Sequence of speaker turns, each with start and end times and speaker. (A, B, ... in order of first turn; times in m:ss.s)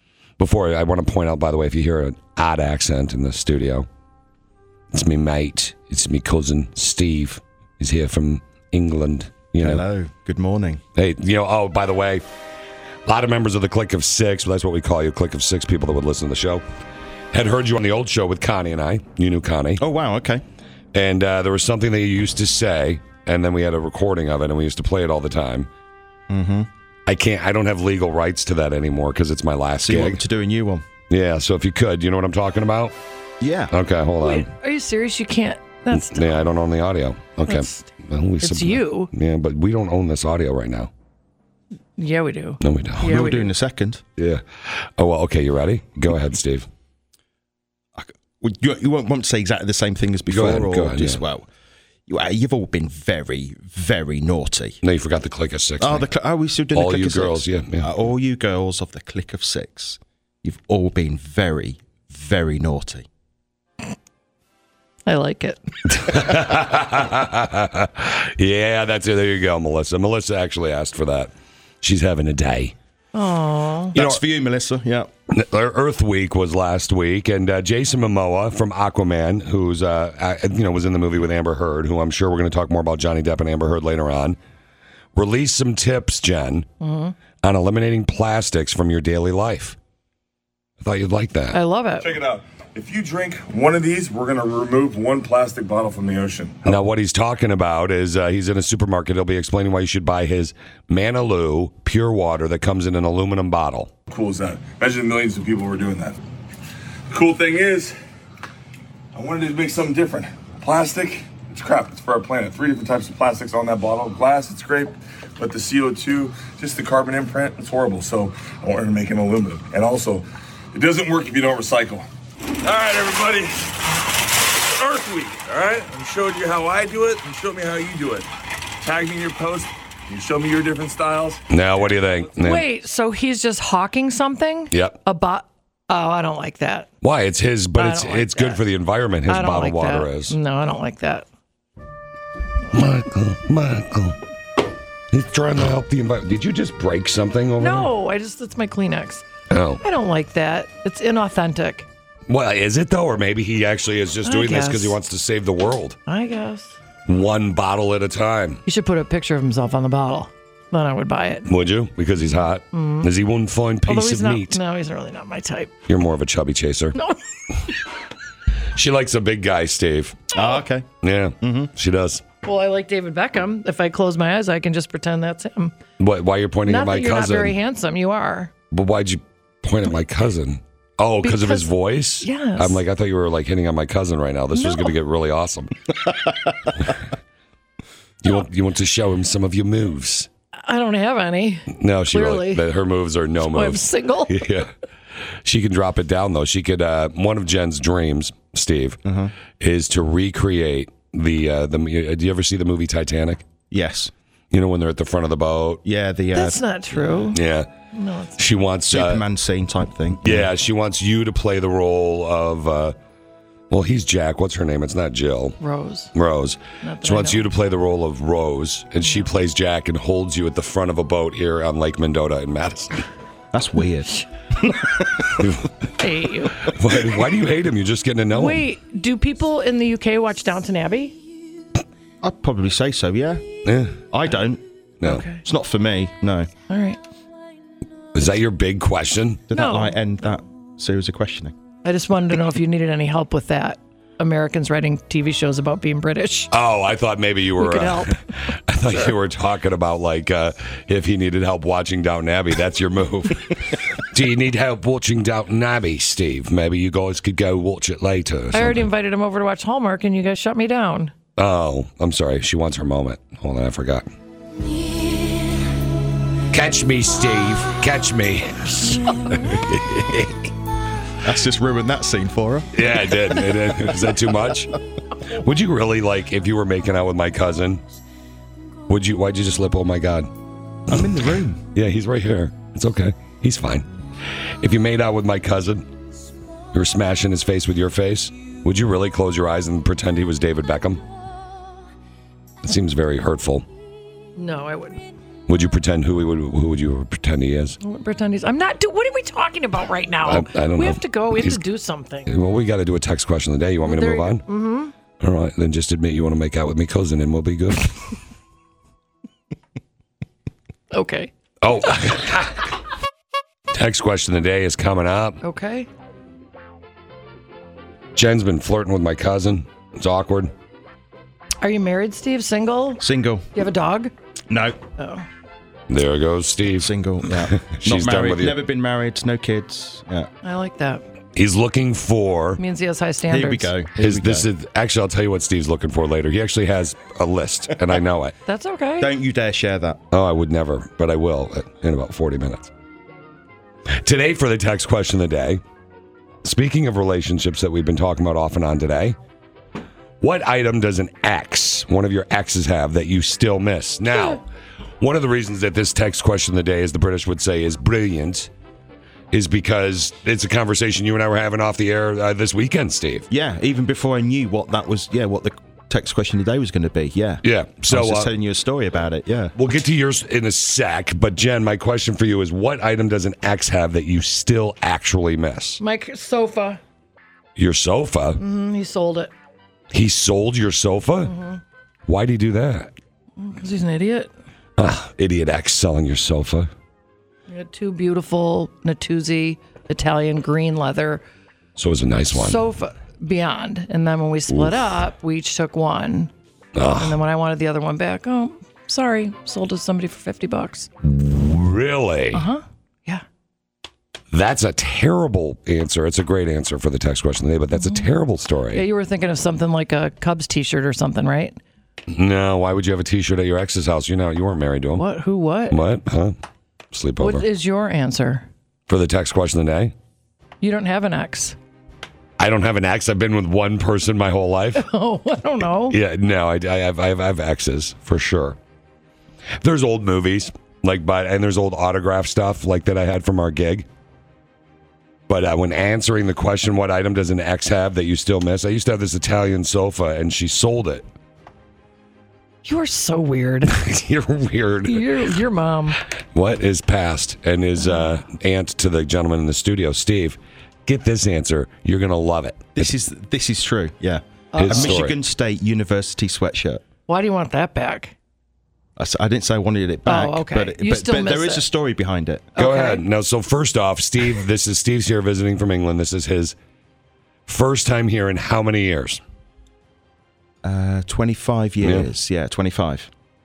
0:00.4-0:03.9 A
0:04.9-0:09.8 A
0:09.6-0:10.8 B
0:10.9-0:12.2 A
0:13.0-0:16.6 A
0:17.3-0:19.8 A
0:19.8-0:20.4 B
0:20.9-0:25.7 A
0:26.3-0:26.7 B
0:27.0-0:30.2 A
0:29.8-0:30.8 B
0:31.1-0:32.9 A
0:33.4-0:33.7 B
0:33.7-0:34.5 A
0:34.2-0:36.4 C
0:35.9-0:40.9 A
0:37.4-0:37.8 C
0:38.4-0:39.1 C
0:42.0-0:43.5 C
0:42.6-0:43.2 A
0:43.0-0:44.0 B
0:44.2-0:46.7 A
0:48.0-0:51.5 B
0:50.3-0:51.2 A
0:52.1-0:54.8 B
0:54.8-0:56.0 A
0:55.8-1:03.1 B
0:56.7-0:57.9 A
1:05.0-1:05.6 C
1:05.9-1:11.3 A
1:11.8-1:12.7 A
1:13.1-1:14.0 C
1:13.9-1:15.1 B
1:15.3-1:24.4 A
1:25.1-1:26.7 A
1:26.8-1:27.1 C
1:27.4-1:29.8 A
1:30.8-1:31.6 A
1:31.5-1:32.1 C
1:32.0-1:36.8 D
1:36.6-1:43.9 A
1:44.1-1:46.2 D
1:47.1-1:48.0 D
1:49.1-2:02.0 D
2:02.6-2:08.3 D
2:08.8-2:12.0 D
2:11.5-2:12.7 A
2:12.4-2:16.9 C
2:14.7-2:15.0 A
2:17.0-2:20.4 A
2:17.8-2:18.6 C
2:19.3-2:21.2 C
2:22.7-2:24.2 A
2:25.1-2:27.9 A
2:27.6-2:29.2 C
2:29.5-2:29.8 A
2:29.8-2:31.8 C
2:32.3-2:36.0 A
2:34.2-2:35.0 C
2:36.0-2:36.8 C
2:37.1-2:38.6 A
2:38.6-2:41.5 C
2:41.5-2:44.6 A
2:42.7-2:43.1 C
2:43.8-2:45.7 C
2:45.9-2:47.0 A
2:48.7-2:50.3 A
2:50.3-2:50.9 B
2:51.0-2:52.2 A
2:51.4-2:51.7 B
2:52.4-2:55.7 C
2:56.0-2:57.6 A
2:56.6-2:58.5 C
2:58.7-3:05.7 A
3:01.2-3:02.8 C
3:04.6-3:04.9 C
3:08.2-3:10.3 A
3:10.6-3:12.6 C
3:11.7-3:14.7 A
3:13.5-3:14.4 C
3:15.4-3:19.0 A
3:19.0-3:19.3 B
3:19.6-3:23.4 A
3:23.7-3:24.1 B
3:24.5-3:25.8 A
3:25.8-3:26.6 B
3:26.3-3:27.4 C
3:27.3-3:27.7 A
3:27.9-3:28.4 C
3:28.4-3:29.2 A
3:28.9-3:30.5 B
3:30.2-3:32.9 A
3:33.7-3:35.6 A
3:35.6-3:36.1 C
3:36.1-3:42.9 A
3:36.8-3:37.5 C
3:39.0-3:39.3 C
3:43.5-3:45.5 B
3:45.4-3:45.7 A
3:46.0-3:46.7 C
3:46.6-3:48.6 A
3:48.3-3:51.2 C
3:52.2-3:53.5 B
3:53.6-3:54.0 A
3:54.1-3:54.6 B
3:55.0-3:55.2 A
3:55.0-3:55.4 C
3:55.3-3:56.5 B
3:56.7-3:57.0 C
3:58.1-3:59.4 A
3:59.5-4:01.5 B
3:59.5-3:59.9 C
4:01.8-4:06.5 C
4:06.5-4:18.9 A
4:07.6-4:08.2 C
4:18.5-4:21.1 C
4:21.4-4:24.0 A
4:26.5-4:30.5 A
4:31.2-4:32.9 B
4:32.7-4:34.8 A
4:35.3-4:37.8 A
4:38.9-4:40.3 A
4:40.9-4:41.6 B
4:41.7-4:43.8 A
4:44.6-4:45.8 A
4:46.7-4:51.0 A
4:52.6-4:53.6 A
4:54.4-4:55.0 C
4:55.5-4:57.8 A
4:57.8-5:02.3 C
5:00.2-5:01.6 A
5:02.3-5:04.4 A
5:03.8-5:04.9 C
5:05.2-5:08.1 A
5:10.9-5:11.3 C
5:11.6-5:12.7 A
5:13.7-5:15.4 A
5:15.4-5:15.9 C
5:18.1-5:20.5 A
5:21.6-5:23.0 C
5:23.0-5:23.5 B
5:23.5-5:24.1 C
5:24.5-5:24.8 B
5:25.0-5:25.2 C
5:25.9-5:28.6 A
5:26.7-5:30.3 B
5:30.4-5:31.0 C
5:31.4-5:32.6 A
5:32.6-5:33.7 C
5:33.3-5:34.4 B
5:34.0-5:38.3 A
5:38.4-5:39.2 C
5:39.0-5:40.0 B
5:40.1-5:42.7 A
5:44.0-5:45.6 A
5:46.4-5:49.2 A
5:50.2-5:54.4 A
5:55.0-5:58.5 A
5:59.3-6:03.3 A
6:03.3-6:09.5 B
6:07.4-6:08.3 A
6:09.6-6:15.8 A
6:15.8-6:16.8 C
6:17.6-6:18.4 A
6:18.4-6:19.3 C
6:19.9-6:21.3 A
6:21.2-6:21.6 C
6:22.1-6:22.9 A
6:23.4-6:24.3 C
6:24.8-6:26.7 A
6:27.5-6:31.2 C
6:31.8-6:32.6 A
6:32.3-6:36.3 C
6:36.7-6:37.2 A
6:37.0-6:40.9 C
6:41.0-6:42.4 A
6:42.3-6:43.2 C
6:44.3-6:48.8 A
6:47.7-6:48.1 C
6:48.7-6:51.6 C
6:52.1-6:55.0 A
6:55.0-6:55.8 C
6:55.7-6:56.3 A
6:56.9-6:57.4 A
6:57.2-6:58.5 C
6:58.9-6:59.9 A
7:00.6-7:01.6 C
7:02.4-7:04.9 A
7:04.7-7:06.0 C
7:05.9-7:08.6 A
7:09.6-7:13.8 A
7:15.3-7:21.0 A
7:22.6-7:23.8 C
7:23.7-7:25.1 A
7:24.8-7:26.0 C
7:26.3-7:32.9 A
7:32.8-7:36.8 B
7:34.5-7:34.9 C
7:34.6-7:35.2 A
7:37.1-7:38.1 C
7:39.0-7:42.5 B
7:40.0-7:41.6 C
7:42.6-7:43.0 C
7:42.6-7:46.5 A
7:47.5-7:49.2 A
7:50.6-7:53.1 B
7:51.8-7:52.1 A